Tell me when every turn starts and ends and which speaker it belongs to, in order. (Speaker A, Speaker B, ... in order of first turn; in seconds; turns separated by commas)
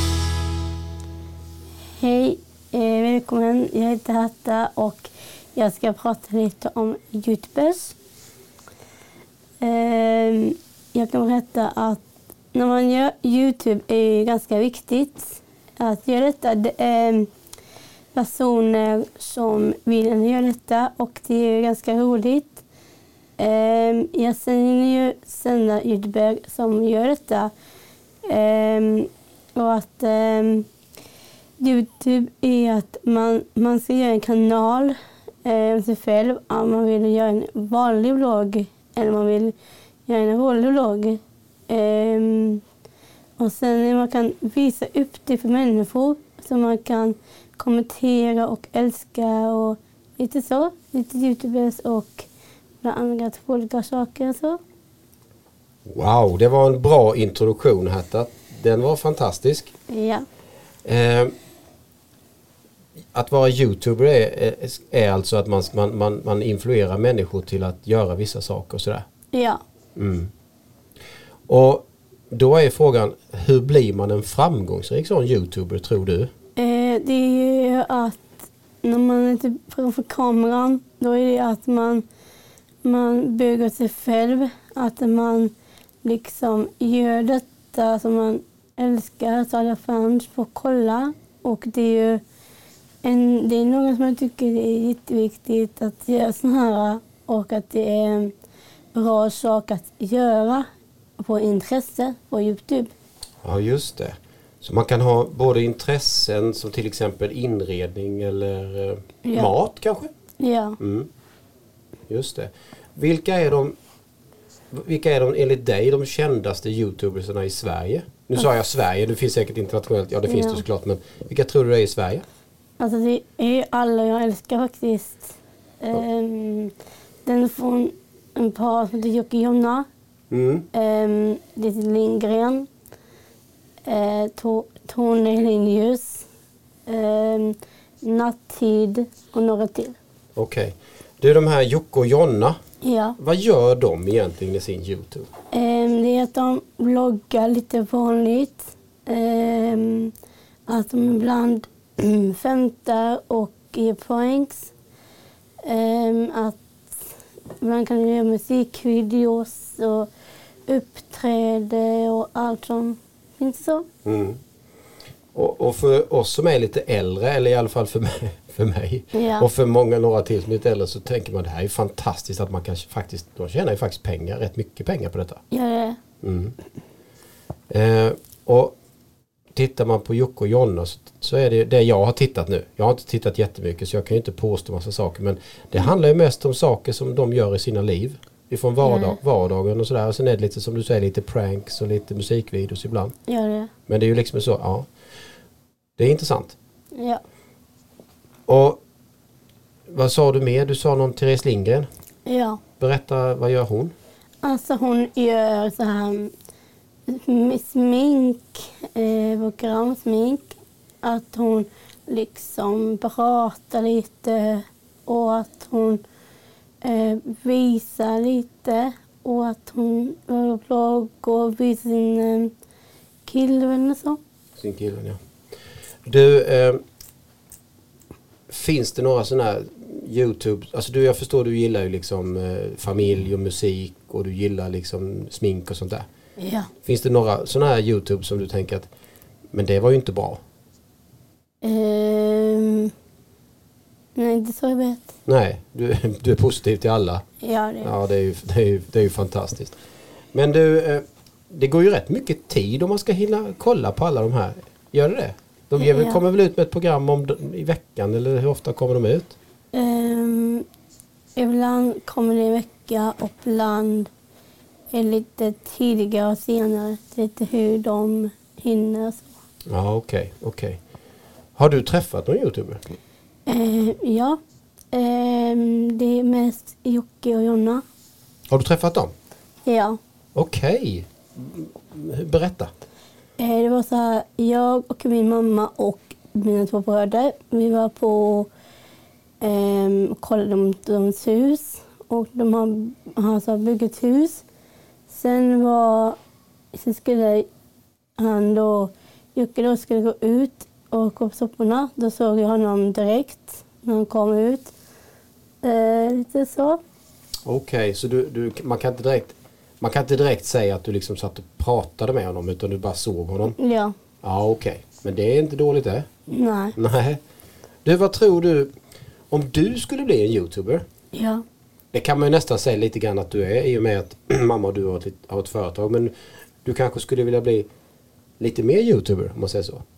Speaker A: 2.0-8.0, Speaker A: 9.6-12.0, Speaker A: 12.5-17.3, Speaker A: 18.1-22.6, Speaker A: 23.4-27.5, Speaker A: 28.3-30.7, Speaker A: 31.6-42.6, Speaker A: 43.4-52.3, Speaker A: 52.8-54.6, Speaker B: 55.9-59.7, Speaker A: 59.9-60.2, Speaker B: 60.9-61.3, Speaker B: 63.1-69.0, Speaker A: 69.3-69.6, Speaker B: 70.0-70.3, Speaker B: 71.5-76.3, Speaker A: 76.6-82.0, Speaker A: 82.8-85.5, Speaker A: 86.0-92.2, Speaker A: 93.0-98.3, Speaker A: 98.9-100.7, Speaker A: 101.2-102.9, Speaker B: 103.4-110.1, Speaker A: 109.2-109.5, Speaker A: 110.4-110.8, Speaker B: 110.8-111.1, Speaker B: 112.1-113.8, Speaker B: 114.7-122.2, Speaker A: 120.3-120.6, Speaker A: 122.8-126.7, Speaker A: 127.2-129.9, Speaker B: 130.3-130.7, Speaker A: 130.7-132.7, Speaker A: 133.8-136.3, Speaker A: 136.9-140.0, Speaker B: 140.4-142.6, Speaker A: 142.8-143.2, Speaker B: 143.2-145.3, Speaker A: 145.5-150.1, Speaker A: 150.7-154.7, Speaker A: 155.6-160.1, Speaker A: 160.7-163.9, Speaker B: 164.1-164.4, Speaker B: 165.3-175.4, Speaker A: 169.1-169.5, Speaker A: 175.5-176.0, Speaker B: 176.2-176.5, Speaker B: 177.7-178.8, Speaker B: 179.6-193.1, Speaker A: 188.8-189.2, Speaker A: 193.3-193.7, Speaker B: 193.9-194.9, Speaker B: 196.0-196.6, Speaker A: 197.0-197.2, Speaker B: 198.5-198.8, Speaker B: 199.9-201.9, Speaker A: 202.3-202.6, Speaker B: 202.8-203.9, Speaker A: 204.4-206.3, Speaker A: 207.1-216.0, Speaker A: 216.8-222.5, Speaker A: 223.3-224.2, Speaker B: 224.6-225.2, Speaker B: 226.1-226.8, Speaker B: 228.5-236.1, Speaker A: 236.4-236.7, Speaker B: 236.8-238.9, Speaker B: 239.5-240.4, Speaker A: 241.6-242.9, Speaker A: 244.2-245.1, Speaker B: 245.3-247.2, Speaker A: 247.4-247.9, Speaker B: 247.8-249.8, Speaker B: 250.3-259.4, Speaker A: 255.8-256.2, Speaker A: 259.7-260.6, Speaker A: 261.4-264.1, Speaker A: 264.9-269.3, Speaker B: 269.7-270.8, Speaker B: 271.6-272.9, Speaker A: 273.5-274.4, Speaker A: 274.9-277.8, Speaker B: 278.5-279.1, Speaker A: 279.7-280.0, Speaker B: 280.4-282.7, Speaker A: 283.4-288.5, Speaker A: 289.4-294.4, Speaker A: 295.1-296.2, Speaker A: 296.7-297.5, Speaker A: 298.2-304.7, Speaker A: 305.6-306.8, Speaker B: 307.5-313.6, Speaker A: 313.6-313.9, Speaker B: 314.2-316.1, Speaker A: 316.3-316.8, Speaker B: 316.8-317.2, Speaker B: 317.8-318.7, Speaker B: 319.3-320.8, Speaker A: 321.1-321.4, Speaker B: 321.9-326.1, Speaker B: 326.6-327.7, Speaker B: 328.4-329.8